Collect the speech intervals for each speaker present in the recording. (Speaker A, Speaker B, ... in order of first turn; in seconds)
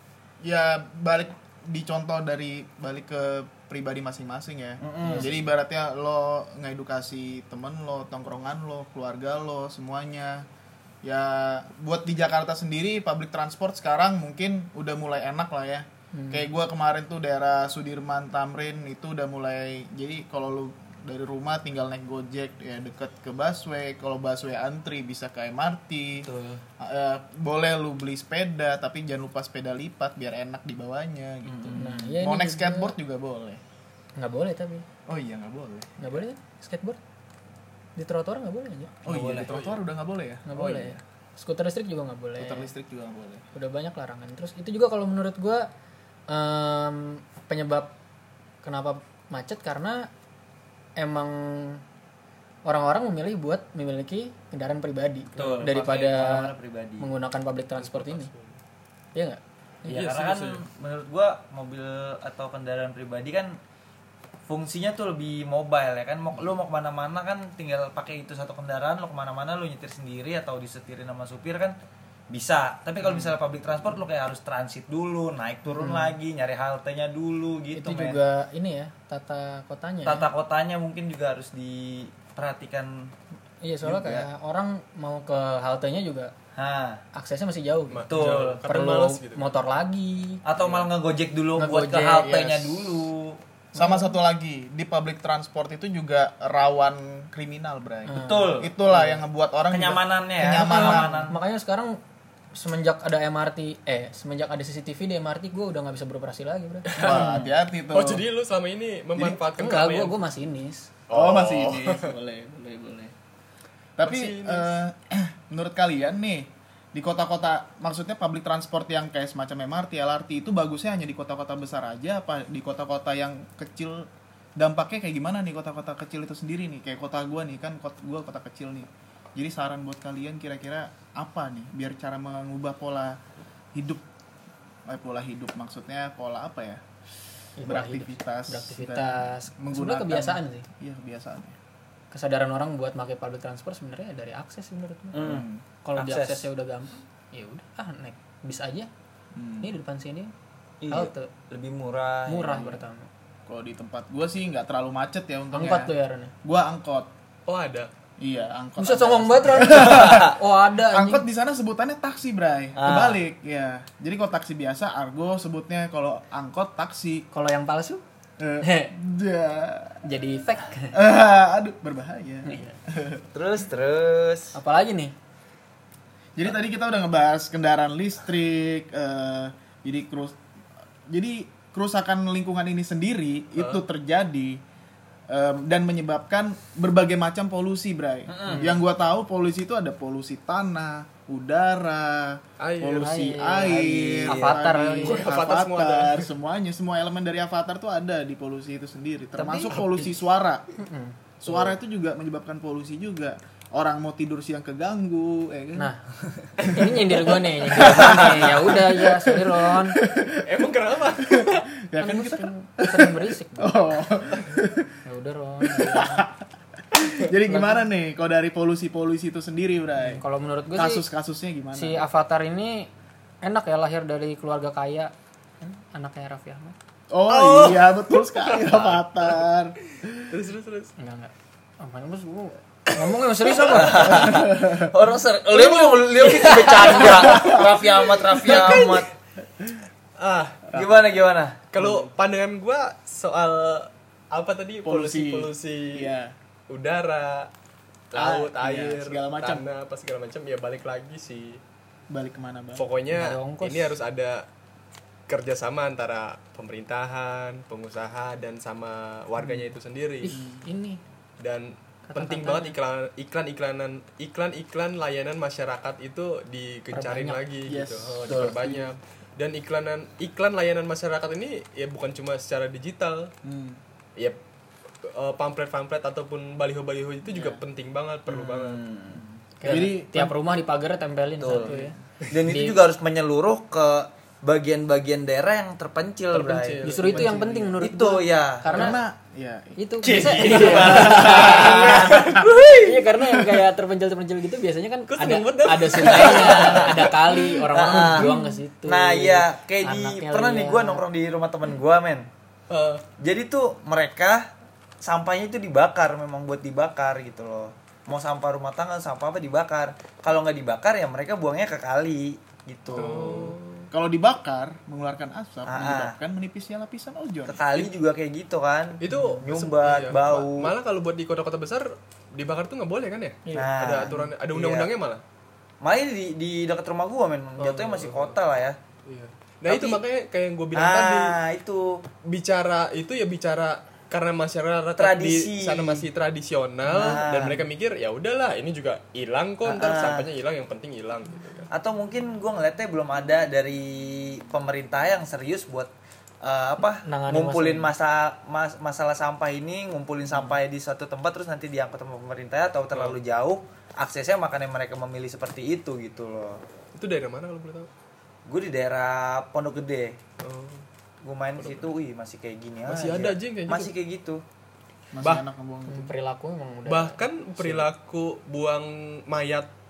Speaker A: 0.4-10.5, 11.0-33.6, 35.1-35.9, 39.0-41.0, 42.4-43.4, 92.2-93.0, 93.8-101.2, 107.0-108.2, 111.1-113.1, 114.0-133.2, 133.8-134.0, 134.9-136.8, 137.6-141.6, 145.2-145.6, 149.3-149.7, 153.5-155.9, 156.4-157.1, 158.2-160.4, 160.9-167.3, 168.4-170.0, 170.9-173.3, 176.4-180.4, 181.1-184.6, 185.3-200.7, 201.4-205.9, 206.6-210.5, 211.2-214.9, 215.7-216.3, 216.9-220.2, 220.7-222.1, 227.1-230.3, 233.8-234.9, 237.3-237.8, 241.8-242.1, 244.8-246.3, 248.2-249.7, 252.1-252.8, 259.4-259.7, 260.3-260.6, 267.7-268.9, 273.4-273.8, 279.6-280.4, 288.7-289.8, 290.5-292.5, 297.9-298.5, 312.9-317.6, 365.1-366.1
Speaker B: 4.8-5.3, 26.2-26.6, 31.4-32.2, 39.1-39.5, 55.4-57.1, 59.9-63.6, 64.5-71.8, 72.3-78.2, 80.0-83.1, 83.8-84.3, 86.5-87.0, 88.1-88.6, 90.5-93.4, 98.2-98.7, 99.7-101.4, 107.0-107.6, 145.1-146.5, 150.8-152.8, 159.7-160.3, 162.8-163.2, 173.3-174.6, 188.3-188.8, 193.6-194.6, 199.4-199.9, 201.5-201.7, 207.8-208.5, 227.3-228.0, 233.0-239.1, 240.7-241.6, 268.3-268.7, 277.3-277.6, 278.3-279.4, 281.4-281.8, 282.3-286.8, 287.8-288.9, 290.0-293.0, 296.0-297.1, 297.7-302.3, 303.2-313.6, 315.7-316.2, 317.5-320.7, 323.5-324.9, 325.8-328.8, 329.7-330.0, 330.8-332.0, 335.0-336.1, 336.9-337.7, 339.6-340.3, 341.7-345.9, 346.4-356.6, 358.5-360.2, 361.2-364.4
Speaker C: 5.0-5.3, 16.1-16.5, 31.8-33.0, 34.2-34.9, 36.0-37.0, 38.0-39.0, 40.5-42.7, 43.5-45.7, 46.3-48.0, 48.6-50.1, 51.0-51.8, 52.6-58.3, 59.1-59.4, 75.8-76.1, 77.8-80.3, 83.6-86.3, 87.1-90.4, 91.6-92.3, 93.8-94.1, 98.1-99.1, 100.5-102.0, 102.5-107.4, 109.6-110.9, 137.6-140.7, 142.1-148.9, 149.6-150.3, 150.9-151.3, 152.3-153.1, 155.5-156.3, 158.8-161.2, 167.3-168.0, 168.6-168.9, 170.0-171.0, 172.4-172.8, 174.6-175.1, 193.0-195.3, 200.8-201.2, 205.8-206.0, 206.6-210.0, 212.0-213.8, 215.1-216.3, 217.5-217.9, 220.0-221.0, 221.7-222.9, 223.4-226.8, 231.0-234.4, 236.7-237.0, 253.1-254.0, 260.2-261.0, 262.1-262.8, 266.9-267.4, 279.6-282.8, 286.8-289.0, 289.8-301.0, 323.4-323.8, 346.9-347.9, 365.9-367.9
Speaker D: 39.4-39.8, 57.8-58.6, 59.9-60.6, 87.9-89.4, 90.6-90.9, 106.9-107.2, 107.9-110.2, 111.1-112.1, 114.0-114.8, 157.5-157.9, 183.6-183.8, 192.6-193.1, 194.8-196.3, 210.4-211.6, 228.5-229.1, 230.3-230.9, 235.5-239.1, 240.2-240.8, 241.7-246.1, 246.7-247.5, 248.1-251.6, 252.8-254.5, 255.3-260.3, 261.4-273.3, 275.0-278.8, 281.5-281.8, 286.3-287.7, 290.6-291.1, 295.1-297.1, 302.7-303.0, 312.9-313.9, 319.0-325.2, 327.6-328.4, 329.1-331.4, 332.2-341.7, 352.9-353.2, 356.9-357.9, 360.4-360.8, 361.6-361.9, 362.9-363.9, 365.2-365.5, 366.9-369.7